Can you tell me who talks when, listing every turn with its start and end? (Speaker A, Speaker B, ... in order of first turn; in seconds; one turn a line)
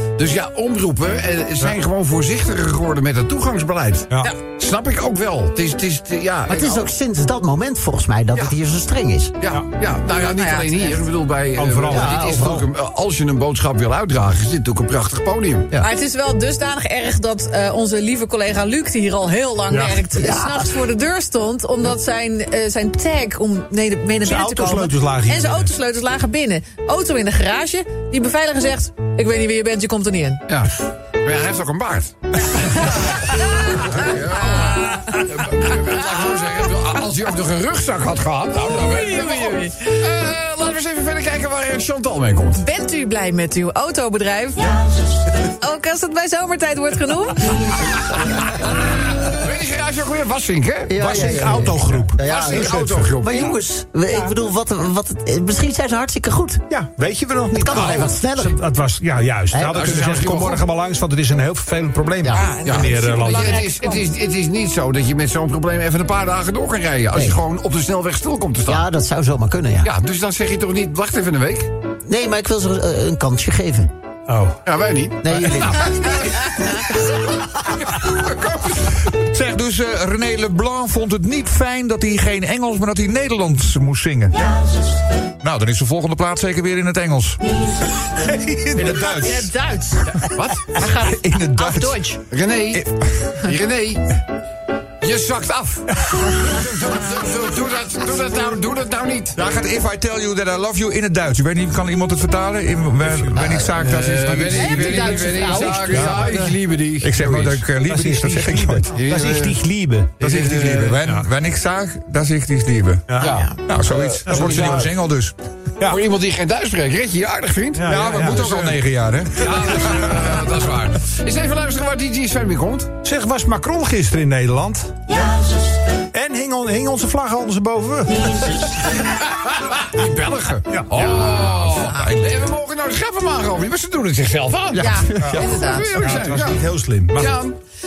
Speaker A: 0.2-6.9
Speaker B: 6.5-9.4
Speaker A: 9.4-15.7
Speaker C: 10.4-11.0
Speaker D: 11.6-12.3
Speaker B: 11.9-12.7
Speaker C: 15.8-30.4
Speaker D: 19.7-20.1
Speaker B: 20.1-20.7
Speaker D: 24.2-25.7
Speaker A: 30.5-42.6
Speaker C: 33.0-35.3
Speaker C: 38.7-39.9
Speaker C: 42.6-44.7
Speaker C: 45.5-47.9
Speaker A: 48.7-51.5
Speaker B: 50.9-56.6
Speaker D: 50.9-53.1
Speaker A: 52.2-53.6
Speaker D: 56.7-63.6
Speaker B: 57.5-58.6
Speaker B: 59.5-60.0
Speaker A: 59.7-60.6
Speaker B: 62.2-62.5
Speaker C: 62.3-64.1
Speaker A: 62.6-68.9
Speaker B: 67.1-67.4
Speaker B: 68.7-69.9
Speaker A: 69.8-71.7
Speaker B: 72.1-73.9
Speaker D: 74.3-74.6
Speaker A: 74.7-79.0
Speaker B: 75.2-76.2
Speaker E: 79.0-84.4
Speaker E: 85.4-87.4
Speaker D: 88.2-89.4
Speaker E: 88.8-89.4
Speaker C: 88.8-90.1
Speaker A: 90.1-90.7
Speaker C: 90.8-92.2
Speaker E: 90.8-92.1
Speaker A: 92.3-92.9
Speaker E: 92.7-93.3
Speaker A: 93.4-94.1
Speaker A: 95.0-99.4
Speaker E: 99.4-106.5
Speaker B: 103.4-103.7
Speaker A: 103.8-107.6
Speaker C: 104.4-106.2
Speaker D: 106.0-106.4
Speaker E: 107.0-109.0
Speaker D: 107.7-110.2
Speaker A: 108.9-109.6
Speaker A: 110.2-111.0
Speaker E: 110.2-115.3
Speaker D: 111.0-111.3
Speaker D: 113.1-113.3
Speaker A: 113.2-114.9
Speaker D: 114.2-114.9
Speaker A: 115.8-118.8
Speaker D: 117.8-118.6
Speaker E: 117.9-120.2
Speaker A: 119.4-122.9
Speaker D: 123.0-124.9
Speaker D: 126.1-128.5
Speaker A: 129.0-136.6
Speaker D: 130.7-131.1
Speaker E: 131.4-132.4
Speaker C: 134.8-135.9
Speaker E: 135.2-135.4
Speaker D: 135.2-137.4
Speaker A: 137.1-137.6